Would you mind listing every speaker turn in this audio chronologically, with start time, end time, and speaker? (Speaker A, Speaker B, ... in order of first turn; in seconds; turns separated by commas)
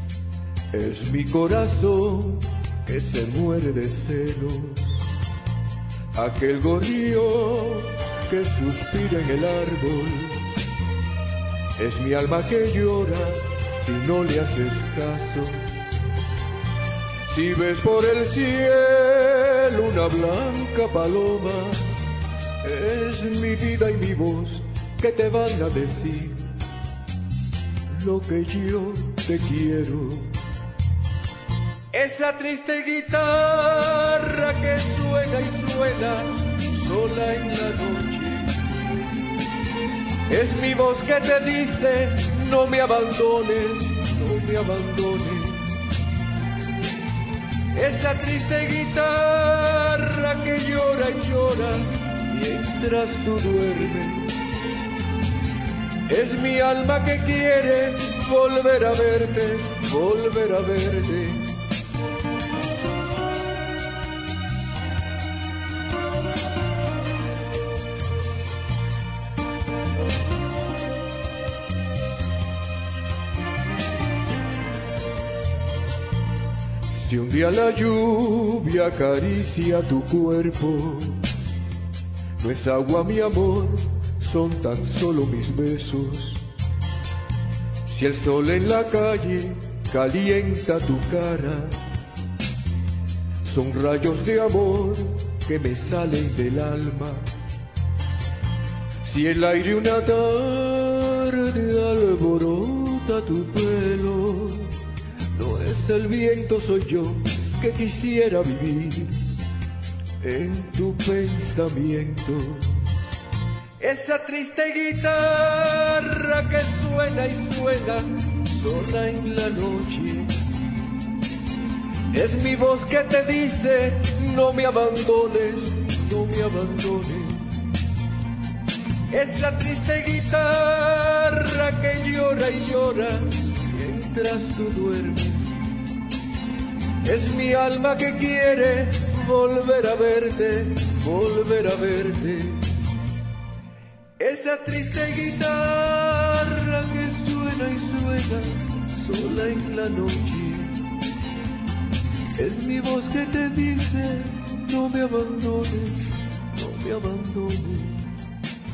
Speaker A: 0.7-5.1, Speaker A: 6.1-10.5, Speaker A: 11.8-15.7, Speaker A: 17.3-22.0, Speaker A: 22.6-26.6, Speaker A: 27.9-30.4, Speaker A: 31.9-38.7, Speaker A: 40.3-45.8, Speaker A: 47.7-54.4, Speaker A: 56.1-61.6, Speaker A: 76.9-81.3, Speaker A: 82.4-86.5, Speaker A: 87.8-91.9, Speaker A: 93.4-97.3, Speaker A: 99.0-104.8, Speaker A: 105.3-109.3, Speaker A: 110.2-112.8, Speaker A: 113.8-120.4, Speaker A: 122.1-127.6, Speaker A: 129.1-135.6, Speaker A: 137.0-142.7, Speaker A: 144.2-150.9, Speaker A: 152.3-158.1